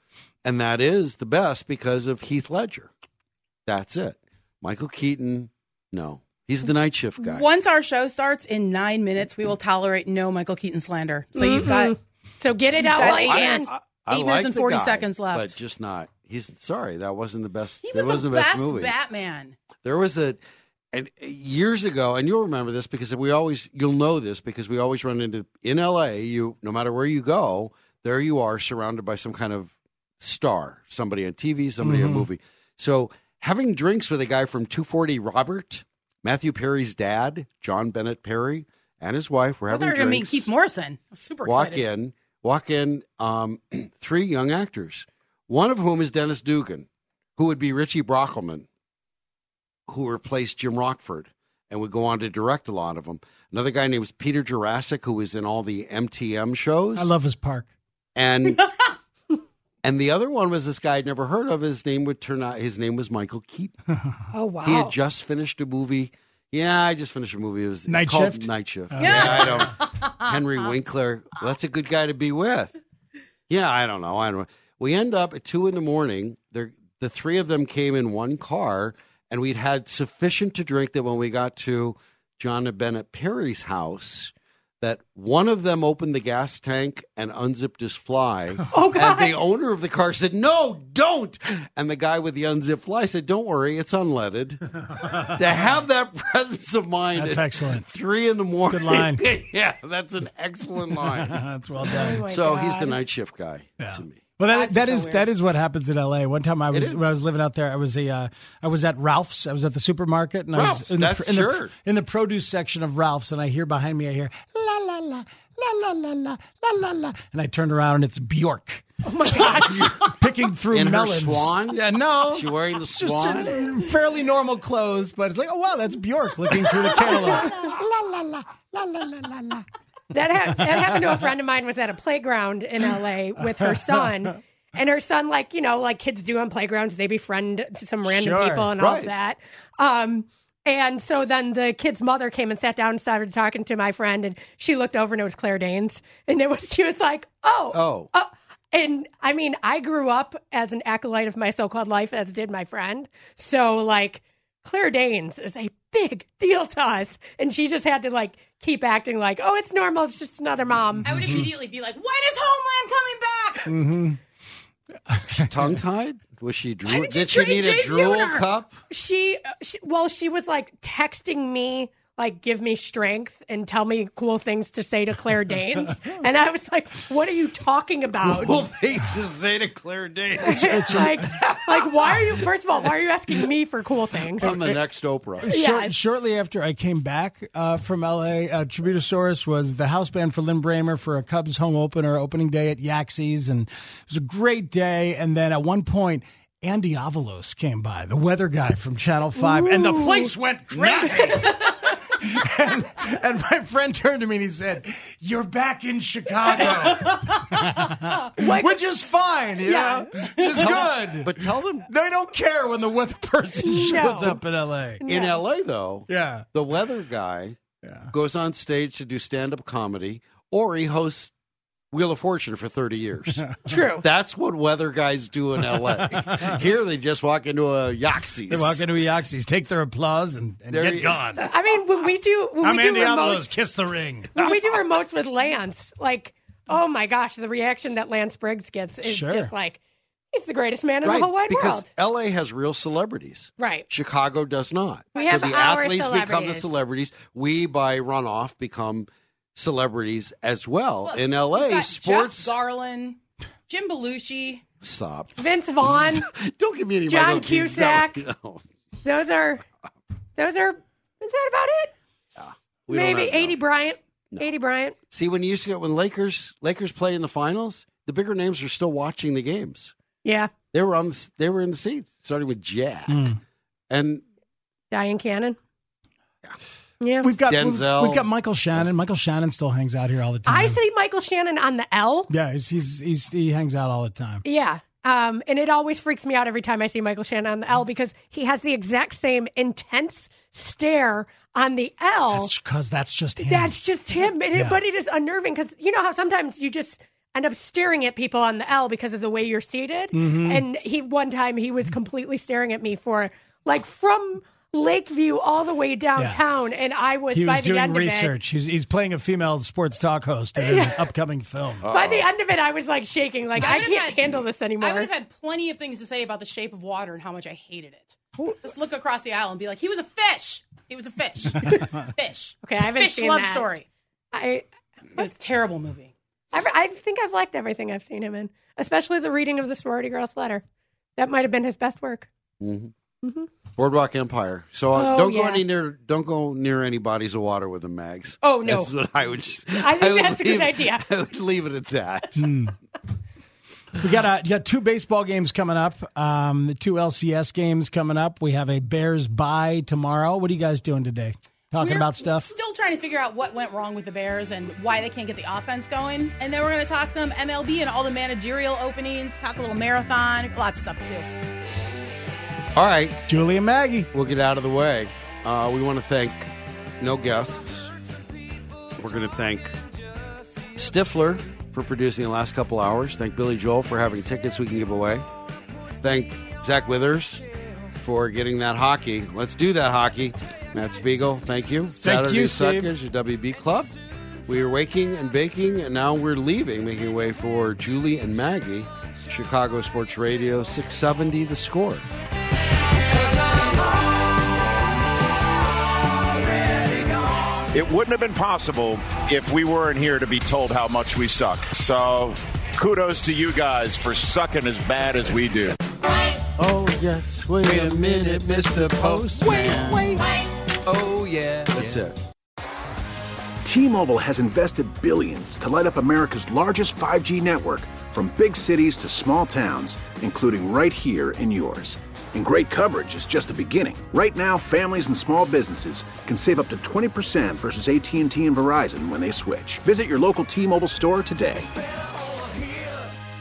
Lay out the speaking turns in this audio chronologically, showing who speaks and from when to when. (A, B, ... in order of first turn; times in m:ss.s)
0:00.4-0:02.9 A
0:03.6-0:07.4 A
0:07.2-0:11.9 B
0:11.3-0:13.7 C
0:12.7-0:15.5 B
0:12.9-0:18.9 A
0:17.8-0:19.6 B
0:19.8-0:20.4 A
0:20.9-0:40.5 A
0:31.8-0:32.3 D
0:39.7-0:41.8 B
0:41.4-0:48.7 A
0:49.9-0:57.1 A
0:57.0-0:57.7 D
0:58.1-0:58.6 A
0:59.8-1:03.8 A
1:04.3-1:04.9 C
1:04.6-1:12.7 A
1:07.9-1:09.7 D
1:09.0-1:10.3 B
1:13.5-1:34.6 A
1:28.7-1:29.3 C
1:35.0-1:35.3 D
1:35.3-1:41.4 A
1:37.2-1:37.8 D
1:38.7-1:39.2 D
1:41.0-1:42.2 D
1:41.9-1:43.0 C
1:42.2-1:44.2 A
1:43.8-2:07.6 D
1:44.4-1:45.3 B
1:46.7-1:47.2 A
1:50.5-1:51.7 A
1:59.0-2:00.1 C
1:59.5-1:59.9 A
2:00.7-2:03.5 A
2:06.5-2:08.3 C
2:09.2-2:09.6 D
2:10.1-2:41.3 C
2:10.7-2:11.0 D
2:13.6-2:14.3 D
2:18.0-2:18.7 D
2:18.8-2:19.1 A
2:27.7-2:28.1 A
2:41.0-2:43.8 B
2:41.0-2:41.5 D
2:43.6-2:44.2 D
2:45.1-2:45.5 D
2:45.3-2:48.8 A
2:46.8-2:48.5 B
2:48.9-2:58.6 C
2:58.2-3:01.9 A
3:00.4-3:04.6 C
3:00.5-3:01.3 D
3:04.4-3:05.5 A
3:04.4-3:04.7 D
3:05.4-3:21.6 D
3:05.5-3:05.9 C
3:19.4-3:20.3 C
3:20.7-3:21.4 A
3:22.1-3:35.0 D
3:28.4-3:28.8 C
3:29.6-3:30.1 C
3:30.5-3:31.9 A
3:33.6-3:34.4 C
3:35.0-3:35.4 C
3:35.0-3:37.6 A
3:36.1-3:36.4 D
3:37.8-3:38.1 D
3:38.1-3:41.3 A
3:41.9-3:48.8 A
3:43.6-3:44.1 C
3:46.1-3:46.5 D
3:48.5-3:51.5 D
3:50.7-3:51.4 A
3:51.4-3:53.6 C
3:52.6-3:54.3 D
3:54.3-3:59.8 C
3:54.4-3:54.8 A
3:59.0-3:59.5 D
4:00.3-4:01.9 C
4:01.0-4:12.5 A
4:03.6-4:03.9 C
4:05.1-4:06.7 C
4:05.2-4:05.6 B
4:11.0-4:14.6 B
4:14.8-4:18.6 A
4:15.4-4:16.3 C
4:17.1-4:18.2 C
4:19.0-4:19.6 C
4:20.4-4:21.9 C
4:22.4-4:23.6 A
4:22.9-4:25.0 C
4:25.1-4:29.9 A
4:30.2-4:30.5 C
4:30.7-4:33.3 A
4:33.1-4:33.4 D
4:33.9-4:34.2 A
4:34.9-4:35.6 C
4:37.0-4:37.3 C
4:37.2-4:40.8 D
4:37.4-4:38.8 A
4:40.5-4:42.3 C
4:42.3-4:44.4 D
4:44.4-4:52.5 C
4:52.3-4:53.8 D
4:53.4-5:08.3 C
4:54.5-4:54.8 D
5:00.1-5:00.6 D
5:07.3-5:11.9 D
5:10.6-5:11.1 C
5:11.8-5:12.3 A
5:11.9-5:15.1 C
5:13.6-5:23.9 B
5:22.6-5:23.7 C
5:24.3-5:24.7 C
5:25.2-5:26.1 B
5:26.5-5:30.6 C
5:31.2-5:32.3 C
5:32.6-5:32.9 A
5:33.2-5:33.5 C
5:33.8-5:42.4 A
5:34.9-5:35.6 C
5:38.4-5:38.9 C
5:39.8-5:41.1 C
5:42.4-5:42.7 D
5:44.0-5:52.5 D
5:51.7-6:01.3 B
6:02.7-6:03.2 A
6:03.3-6:04.1 D
6:04.1-6:07.9 A
6:09.0-6:09.7 A
6:10.8-6:15.2 A
6:16.0-6:17.4 A
6:18.0-6:23.9 A
6:22.0-6:22.9 D
6:24.5-6:32.0 A
6:37.7-6:45.8 E
6:46.6-6:50.2 A
6:47.6-6:50.2 D
6:51.7-6:52.2 A
6:53.6-7:11.7 F